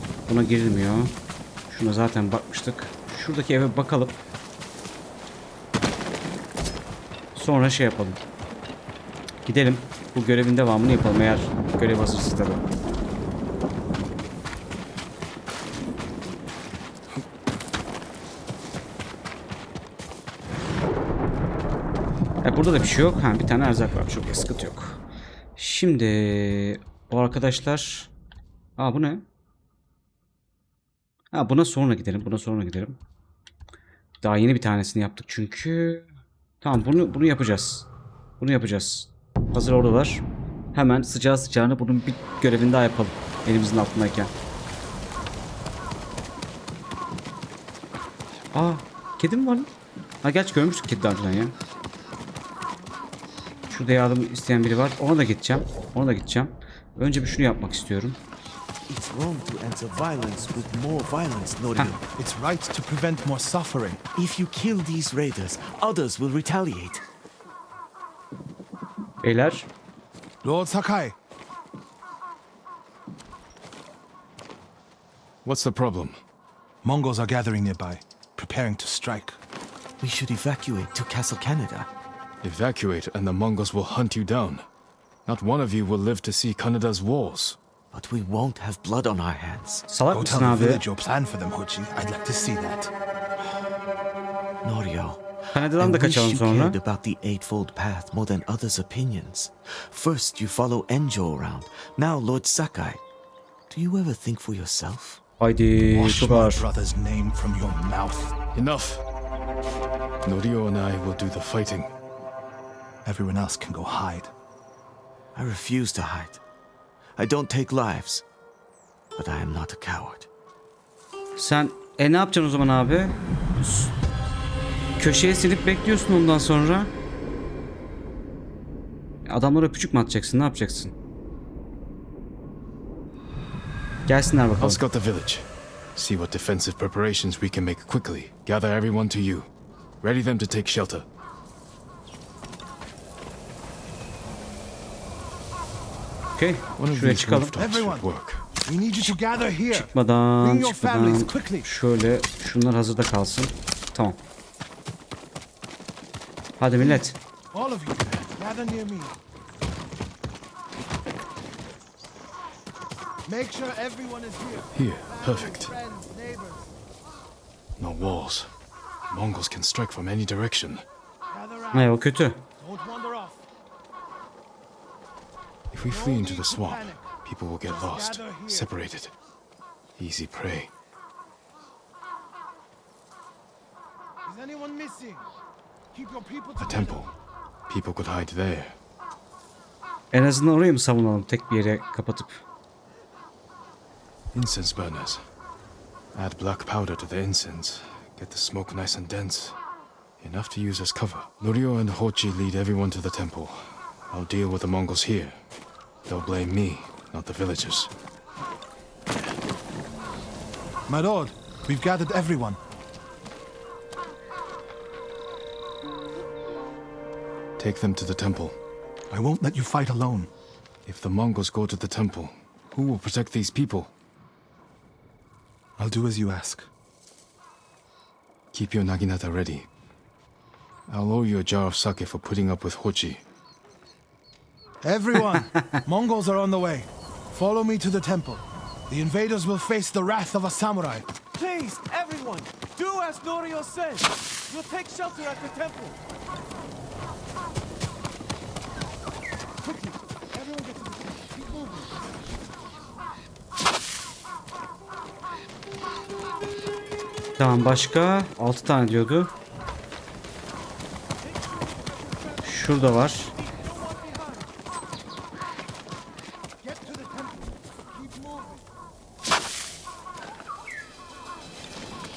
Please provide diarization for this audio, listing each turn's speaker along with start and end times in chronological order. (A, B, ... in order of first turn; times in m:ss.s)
0:00.3-0:01.1 A
0:01.7-0:04.2 A
0:07.3-0:08.2 A
0:09.4-0:12.6 A
0:22.4-0:25.0 A
0:25.6-0:28.1 A
0:28.8-0:29.2 A
0:31.3-0:33.0 A
0:34.2-0:36.0 A
0:36.6-0:37.9 A
0:38.4-0:44.3 A
0:48.5-0:49.7 A
0:50.2-0:51.5 A
0:53.7-0:58.2 A
0:58.9-1:02.0 B
1:02.2-1:04.0 C
1:04.1-1:07.0 B
1:09.2-1:09.7 A
1:10.4-1:11.2 C
1:15.4-1:16.2 D
1:16.8-1:19.4 C
1:20.0-1:21.9 B
1:22.4-1:24.6 D
1:25.2-1:27.6 D
1:27.9-1:29.8 B
1:29.9-1:30.8 A
1:30.1-1:32.9 C
1:34.6-1:43.0 B
1:35.5-1:36.8 A
1:43.7-1:45.2 B
1:45.4-1:46.6 A
1:45.9-1:48.3 C
1:48.5-1:49.0 D
1:50.2-1:51.9 D
1:53.0-1:54.3 C
1:55.3-1:56.4 B
1:57.2-1:58.2 B
1:59.2-2:00.3 B
2:01.4-2:03.9 A
2:05.0-2:06.9 A
2:09.2-2:10.9 A
2:14.1-2:14.8 A
2:14.6-2:19.5 D
2:20.0-2:21.0 D
2:26.4-2:27.5 A
2:26.8-2:28.4 D
2:27.6-2:28.1 C
2:28.6-2:31.7 C
2:29.7-2:34.2 A
2:36.6-2:37.2 A
2:37.5-2:39.2 C
2:43.2-2:46.7 C
2:44.7-2:45.8 D
2:47.8-2:48.5 D
2:49.1-2:50.8 D
2:51.3-2:51.9 C
2:51.7-2:52.4 A
2:52.6-2:53.4 C
2:55.7-2:59.1 D
2:55.8-2:57.0 C
2:57.6-2:58.7 C
3:00.0-3:00.7 D
3:04.2-3:05.3 C
3:05.9-3:07.1 C
3:06.6-3:07.1 D
3:07.7-3:08.8 D
3:10.1-3:12.4 A
3:14.3-3:15.2 D
3:16.1-3:19.6 D
3:20.2-3:25.4 D
3:26.1-3:27.9 D
3:30.9-3:32.6 C
3:37.6-3:38.6 D
3:39.1-3:40.3 C
3:40.8-3:43.9 D
3:45.8-3:46.7 C
3:48.5-3:49.7 D
3:50.9-3:53.2 D
3:54.8-4:01.1 C
3:55.3-3:55.8 A
4:01.4-4:05.9 E
4:09.6-4:11.7 E
4:10.4-4:10.9 C
4:17.4-4:19.3 A
4:22.4-4:23.3 A
4:23.9-4:24.3 C
4:26.6-4:28.6 C